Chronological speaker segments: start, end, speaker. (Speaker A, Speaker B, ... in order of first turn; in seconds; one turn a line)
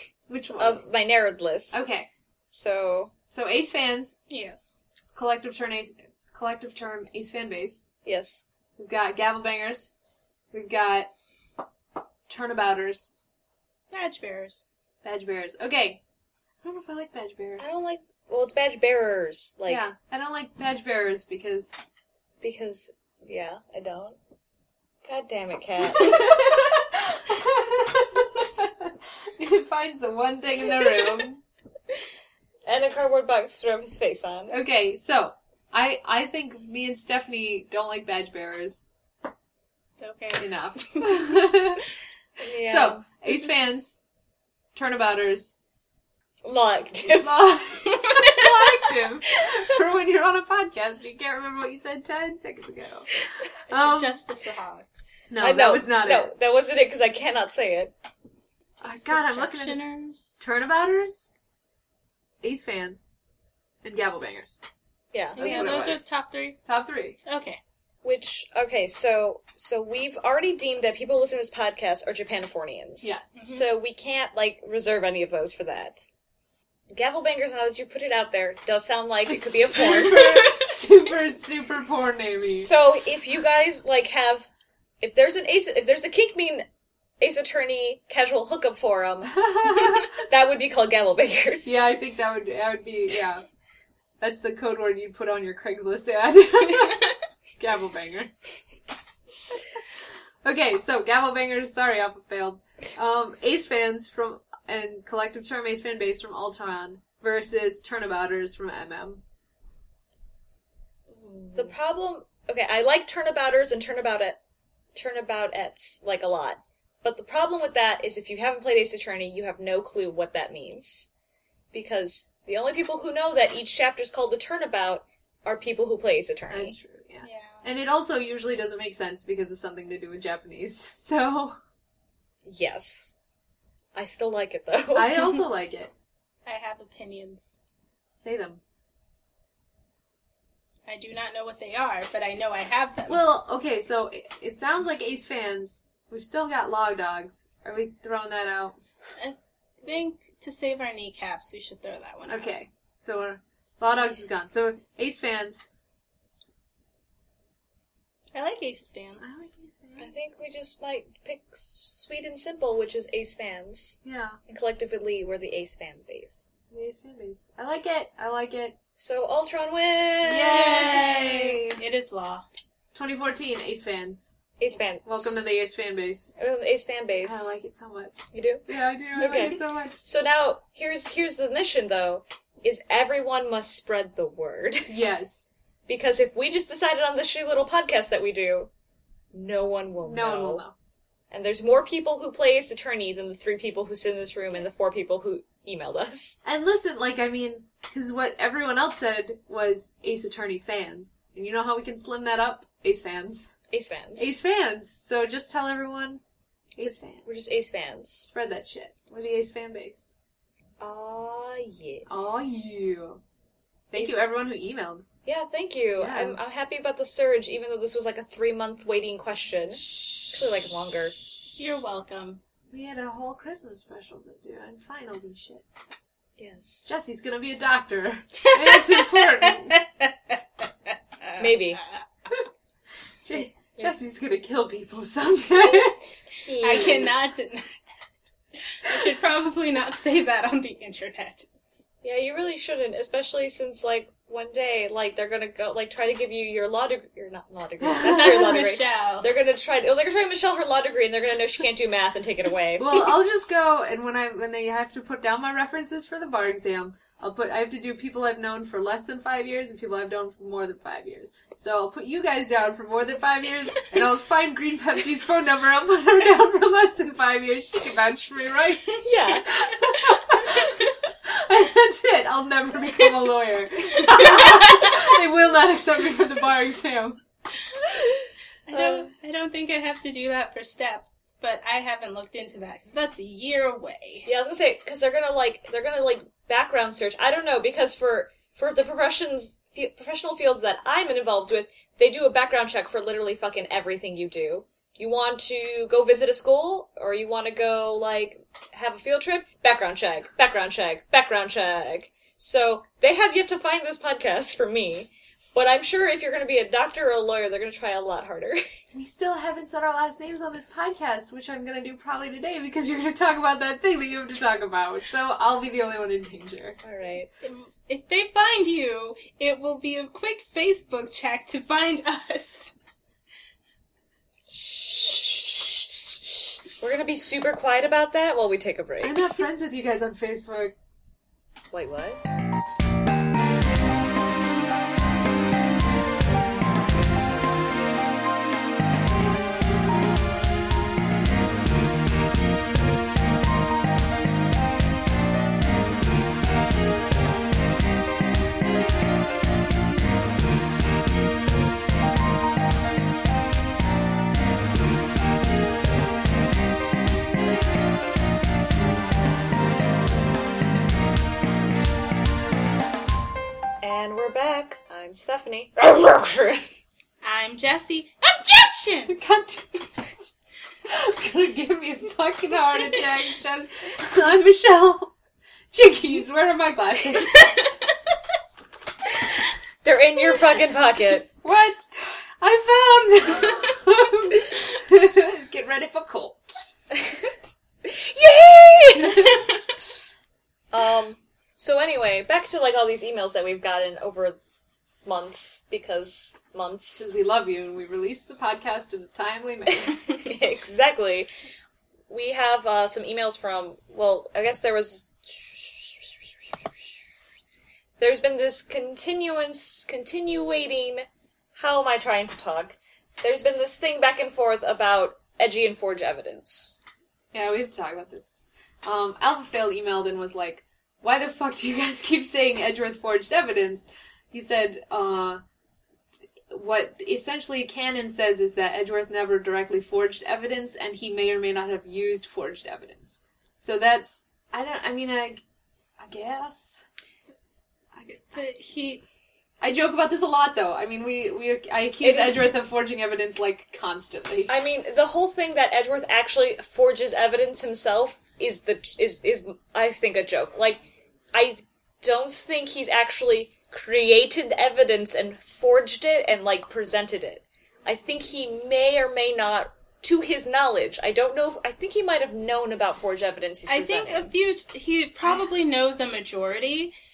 Speaker A: 0.3-0.8
Speaker B: 0.6-1.8
Speaker A: 1.7-2.1
Speaker B: 2.5-3.1
Speaker A: 3.3-4.2
Speaker C: 4.3-4.8
Speaker A: 5.2-7.8
Speaker B: 8.1-8.5
Speaker A: 8.8-9.9
Speaker A: 10.5-11.1
Speaker A: 12.3-13.1
Speaker C: 13.9-14.6
Speaker A: 15.0-16.0
Speaker A: 16.6-17.7
Speaker B: 17.6-19.9
Speaker A: 19.7-21.8
Speaker B: 22.4-24.2
Speaker B: 25.0-26.5
Speaker A: 25.9-31.4
Speaker B: 32.7-34.6
Speaker A: 34.5-38.9
Speaker C: 40.0-41.4
Speaker A: 40.4-41.9
Speaker B: 42.4-43.0
Speaker A: 42.6-44.0
Speaker A: 44.7-45.6
Speaker B: 46.4-47.6
Speaker A: 47.2-53.1
Speaker C: 47.9-48.4
Speaker A: 53.7-54.2
Speaker C: 53.7-54.9
Speaker A: 55.3-56.3
Speaker B: 55.4-57.9
Speaker A: 58.8-59.8
Speaker C: 58.9-60.4
Speaker A: 60.4-61.3
Speaker A: 62.4-63.0
Speaker A: 63.8-64.6
Speaker B: 65.1-66.0
Speaker C: 65.4-66.6
Speaker A: 65.4-66.1
Speaker A: 66.7-67.2
Speaker C: 67.2-67.6
Speaker B: 68.0-76.0
Speaker A: 73.0-73.3
Speaker C: 73.4-73.7
Speaker B: 76.9-80.5
Speaker A: 79.3-82.7
Speaker C: 79.9-80.4
Speaker B: 82.4-84.5
Speaker B: 85.0-86.7
Speaker B: 87.2-91.8
Speaker A: 89.4-90.2
Speaker A: 91.7-93.4
Speaker A: 94.2-98.3
Speaker A: 100.4-109.2
Speaker A: 111.2-111.5
Speaker B: 111.5-114.4
Speaker B: 115.0-121.1
Speaker B: 121.7-126.8
Speaker A: 126.5-131.6
Speaker C: 127.2-127.7
Speaker B: 132.4-133.2
Speaker B: 133.9-135.4
Speaker A: 134.9-135.9
Speaker C: 136.5-137.6
Speaker A: 138.2-138.6
Speaker C: 140.9-143.2
Speaker A: 143.1-148.8
Speaker C: 149.2-152.5
Speaker A: 152.3-155.7
Speaker C: 158.3-159.4
Speaker A: 159.2-160.1
Speaker B: 160.0-166.5
Speaker A: 164.1-164.4
Speaker A: 166.7-168.8
Speaker B: 169.0-171.3
Speaker A: 170.2-171.8
Speaker C: 170.4-172.4
Speaker A: 172.9-174.4
Speaker B: 174.6-175.4
Speaker A: 175.1-176.4
Speaker B: 176.4-177.6
Speaker A: 177.2-180.0
Speaker B: 178.3-184.9
Speaker A: 184.9-185.5
Speaker B: 185.9-188.7
Speaker B: 189.3-190.6
Speaker A: 190.0-190.7
Speaker B: 191.3-196.4
Speaker A: 196.4-203.6
Speaker B: 203.7-204.4
Speaker A: 204.2-206.2
Speaker A: 206.8-207.3
Speaker B: 206.8-208.3
Speaker A: 208.3-210.1
Speaker B: 210.8-213.0
Speaker A: 212.1-213.2
Speaker A: 213.9-215.1
Speaker B: 213.9-214.2
Speaker B: 215.2-221.2
Speaker A: 216.0-216.4
Speaker C: 221.6-222.4
Speaker A: 222.7-225.7
Speaker B: 226.4-226.9
Speaker A: 226.9-229.8
Speaker C: 228.3-230.4
Speaker C: 231.3-231.8
Speaker B: 231.4-231.8
Speaker A: 233.2-236.1
Speaker B: 236.5-237.1
Speaker C: 236.5-237.8
Speaker C: 238.7-241.5
Speaker B: 242.0-253.1
Speaker A: 247.8-248.4
Speaker C: 248.0-249.3
Speaker A: 252.8-277.2
Speaker B: 269.0-270.4
Speaker C: 274.0-275.0
Speaker C: 278.7-284.3
Speaker B: 278.7-279.1
Speaker B: 284.3-308.6
Speaker A: 308.9-316.8
Speaker B: 316.8-317.3
Speaker C: 317.4-322.7
Speaker B: 324.5-329.2
Speaker A: 329.0-330.8
Speaker B: 331.7-332.2
Speaker B: 363.8-366.6
Speaker C: 367.2-369.2
Speaker A: 369.1-369.9
Speaker A: 370.9-375.1
Speaker A: 375.7-377.7
Speaker B: 379.1-381.3
Speaker A: 381.4-381.9
Speaker A: 382.4-386.5
Speaker B: 387.8-389.4
Speaker A: 389.0-389.5
Speaker B: 390.7-394.4
Speaker B: 395.1-397.1
Speaker A: 397.0-400.0
Speaker B: 399.9-401.3
Speaker B: 402.1-406.3
Speaker B: 408.0-416.8
Speaker A: 417.3-425.4
Speaker A: 426.5-435.4
Speaker A: 436.0-436.9
Speaker C: 438.1-439.0
Speaker A: 439.6-444.5
Speaker B: 442.0-442.5
Speaker B: 444.5-464.3
Speaker C: 463.7-466.9